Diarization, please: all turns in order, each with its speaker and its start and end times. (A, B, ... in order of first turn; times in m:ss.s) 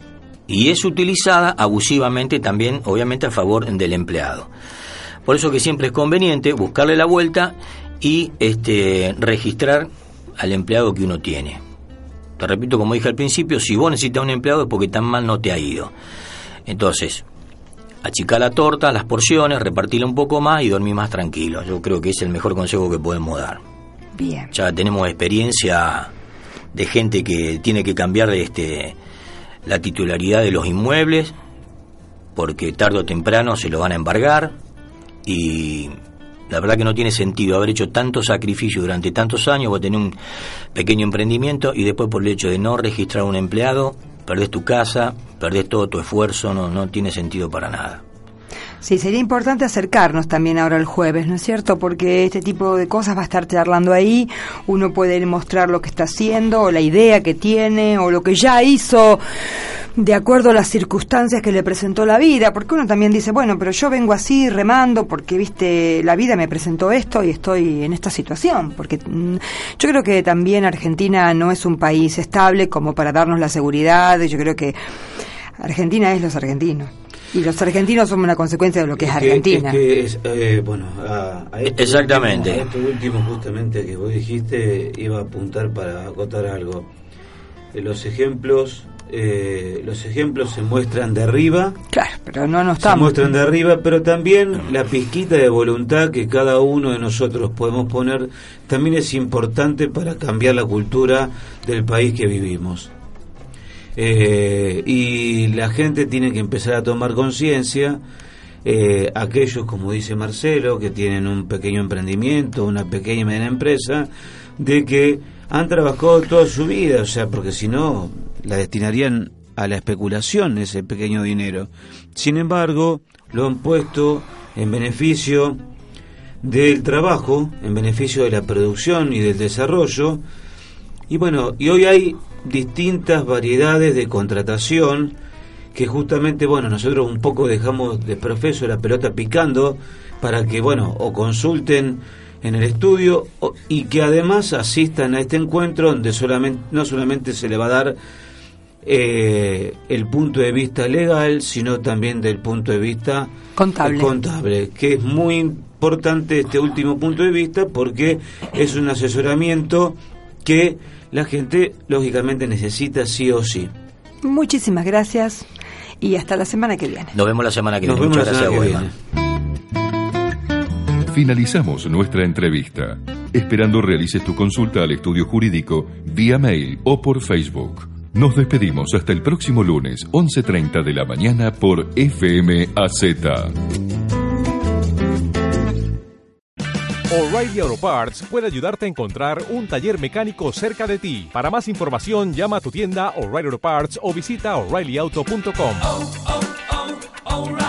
0:00.5-0:04.5 A
0:05.3-0:09.9 A
0:10.4-0:11.6 A
0:12.4-0:15.9 A
0:16.7-0:17.2 A
0:18.0-0:23.6 A
0:24.2-0:24.5 B
0:24.5-0:26.1 A
0:26.7-0:29.0 A
0:29.7-0:31.3 A
0:32.4-0:34.5 A
0:35.3-0:35.9 A
0:36.5-0:40.2 A
0:40.7-0:48.0 A
0:48.8-0:59.2 B
1:00.0-1:14.8 B
1:15.6-1:19.8 B
1:19.0-1:26.9 C
1:21.7-1:22.7 A
1:27.7-1:31.8 C
1:31.9-1:33.3 B
1:32.8-1:42.9 C
1:44.0-1:48.0 C
1:48.6-2:05.6 C
2:06.4-2:10.2 C
2:11.1-2:15.2 C
2:15.7-2:28.0 C
2:28.8-2:33.3 C
2:33.6-2:34.1 B
2:33.8-2:43.7 C
2:44.2-2:45.5 B
2:46.0-2:47.1 B
2:47.1-2:48.9 A
2:47.8-2:48.9 C
2:51.1-3:03.5 D
3:07.1-3:16.1 E